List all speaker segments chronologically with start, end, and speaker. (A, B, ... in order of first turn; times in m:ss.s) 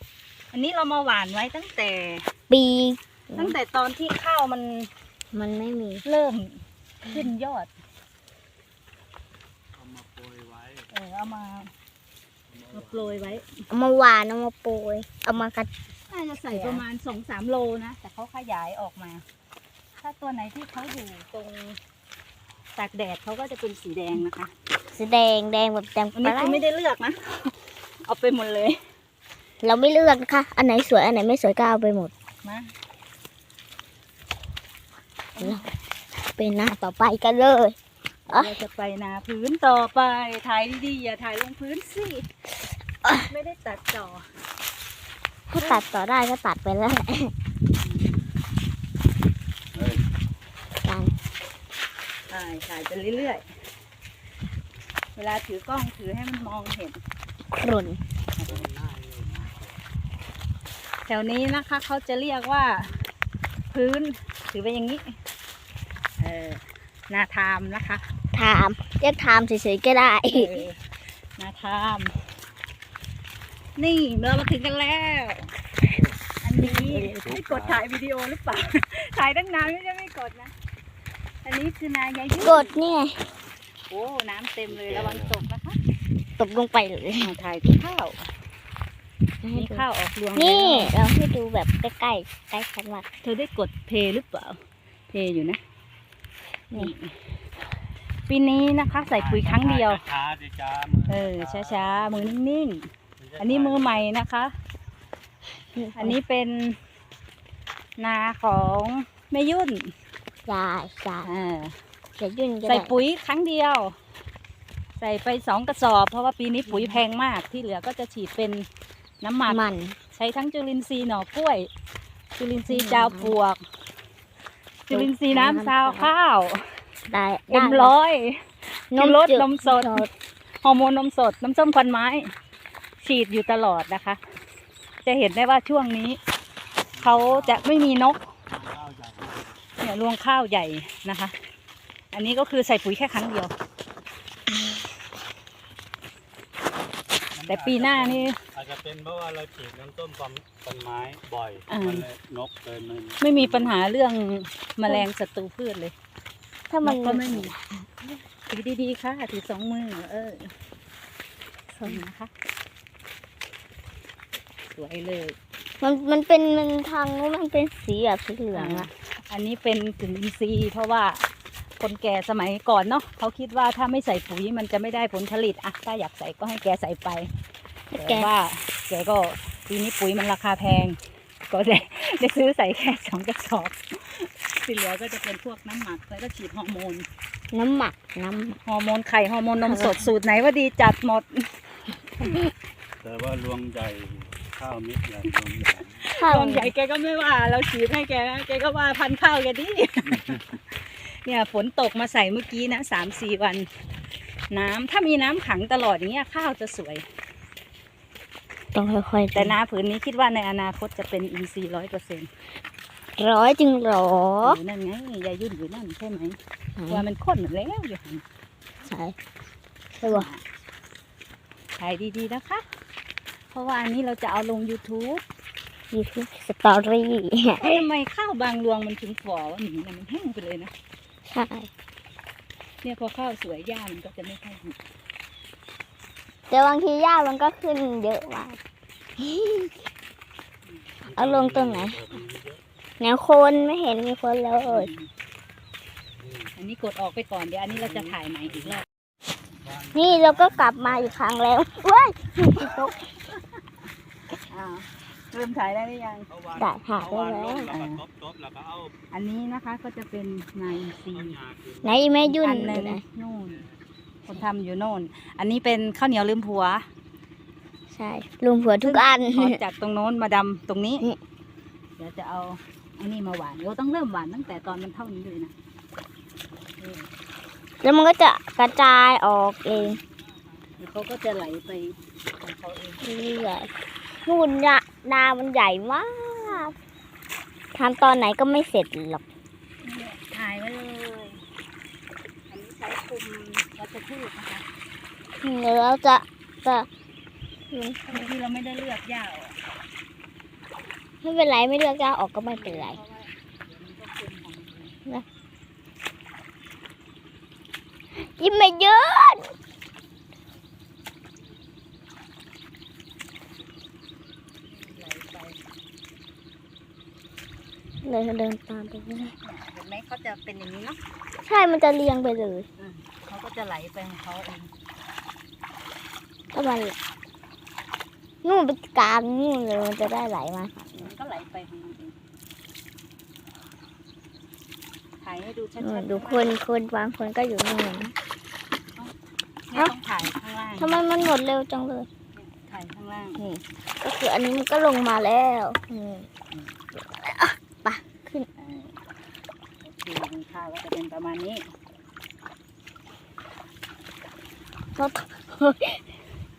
0:00.5-0:02.3 A
0:02.5-0:03.6 B
0:03.4-0:04.9 A
0:05.3-0:06.0 B
0:06.0-0:07.7 A
0:09.8-0:10.8 C
0:10.9-0:11.7 A
0:12.7-0:13.6 A
0:13.7-0:15.7 B
0:16.1-0:19.2 A
0:16.5-0:16.8 B
0:20.0-0:21.8 A
0:22.8-0:24.5 A
0:24.9-0:26.6 B
0:26.2-0:28.8 A
0:29.6-0:32.1 B
0:32.4-0:32.7 A
0:35.4-0:35.7 A
0:36.2-0:37.8 B
0:38.3-0:42.3 A
0:38.3-0:38.6 B
0:43.2-0:44.2 A
0:45.5-0:47.3 B
0:47.8-0:48.2 A
0:50.8-0:51.1 B
0:52.3-0:53.5 A
0:55.2-0:57.0 A
0:57.6-0:58.0 B
0:58.4-0:58.7 A
0:58.6-0:59.7 C
1:01.1-1:03.1 A
1:03.7-1:05.2 A
1:06.2-1:08.0 A
1:08.3-1:10.6 B
1:10.3-1:10.8 A
1:11.4-1:12.2 A
1:13.8-1:15.5 A
1:16.4-1:20.5 A
1:16.6-1:17.2 B
1:21.4-1:22.7 A
1:22.4-1:23.2 B
1:23.9-1:25.8 A
1:26.4-1:27.3 B
1:27.2-1:28.3 A
1:29.4-1:33.1 B
1:29.5-1:31.0 A
1:33.2-1:34.6 A
1:35.1-1:35.6 A
1:36.7-1:37.2 A
1:38.3-1:40.1 A
1:39.6-1:41.1 C
1:41.1-1:44.5 A
1:45.8-1:46.2 B
1:46.0-1:46.8 A
1:48.0-1:49.9 A
1:50.5-1:51.3 B
1:51.2-1:51.8 A
1:52.2-1:52.9 B
1:52.7-1:54.0 A
1:55.0-1:58.7 A
1:59.2-1:59.6 A
1:59.5-2:00.0 B
2:00.1-2:01.7 A
2:02.4-2:03.6 A
2:02.7-2:03.3 B
2:04.9-2:06.8 A
2:04.9-2:06.1 B
2:07.1-2:07.9 B
2:07.5-2:10.1 A
2:08.9-2:10.1 B
2:10.6-2:12.3 A
2:13.0-2:14.2 A
2:15.0-2:16.2 A
2:17.0-2:18.3 A
2:18.6-2:19.4 C
2:19.8-2:21.3 A
2:22.1-2:23.5 A
2:27.4-2:28.4 A
2:27.9-2:33.2 C
2:31.7-2:32.1 A
2:33.2-2:35.9 A
2:36.7-2:37.9 B
2:36.8-2:37.6 A
2:38.3-2:40.5 A
2:41.7-2:42.0 B
2:41.8-2:42.3 A
2:44.8-2:45.4 A
2:45.8-2:48.9 B
2:48.5-2:51.3 A
2:51.8-2:57.3 A
2:57.9-2:58.3 B
2:57.9-3:01.0 A
3:01.5-3:07.1 A
3:07.5-3:08.6 B
3:08.6-3:11.6 A
3:09.6-3:10.1 B
3:13.0-3:15.9 C
3:15.9-3:23.7 A
3:16.2-3:16.7 B
3:24.5-3:27.0 A
3:28.7-3:29.6 B
3:29.3-3:32.3 A
3:33.2-3:34.6 B
3:34.4-3:38.2 A
3:36.8-3:37.0 B
3:38.9-3:39.2 B
3:40.0-3:40.3 B
3:40.0-3:40.4 A
3:41.8-3:42.6 A
3:43.5-3:45.2 A
3:45.9-3:47.8 B
3:47.6-3:50.7 A
3:51.3-3:51.7 B
3:52.8-3:54.8 A
3:56.5-3:58.6 B
3:59.2-3:59.7 B
4:01.1-4:02.1 B
4:01.1-4:02.6 C
4:03.0-4:04.9 B
4:04.7-4:05.1 A
4:06.6-4:08.8 A
4:09.7-4:10.8 C
4:09.9-4:12.9 B
4:12.4-4:12.9 A
4:14.5-4:16.3 A
4:16.6-4:17.7 B
4:17.1-4:18.9 C
4:17.7-4:18.0 A
4:19.1-4:21.4 A
4:21.4-4:21.8 C
4:21.8-4:23.0 B
4:22.2-4:23.6 A
4:24.3-4:26.9 A
4:27.9-4:29.6 B
4:28.6-4:31.1 A
4:32.0-4:35.5 A
4:36.8-4:37.1 A
4:37.8-4:40.0 B
4:40.8-4:43.0 A
4:43.0-4:43.7 B
4:44.2-4:46.7 B
4:47.7-4:49.2 B
4:49.8-4:51.4 A
4:52.5-4:54.6 A
4:55.4-4:56.9 B
4:57.7-4:58.3 B
4:58.1-4:59.6 A
5:01.2-5:03.0 B
5:02.5-5:05.0 A
5:08.2-5:09.5 B
5:14.7-5:15.6 A
5:18.0-5:19.3 B
5:19.4-5:21.0 A
5:21.4-5:22.7 B
5:22.8-5:24.7 A
5:26.5-5:27.0 B
5:28.4-5:31.1 B
5:31.0-5:32.2 A
5:35.2-5:36.5 A
5:35.8-5:38.1 B
5:39.7-5:41.0 A
5:40.8-5:42.1 B
5:42.4-5:43.4 A
5:43.4-5:46.3 B
5:47.0-5:48.5 B
5:48.6-5:49.0 A
5:49.8-5:51.7 A
5:55.0-5:56.0 B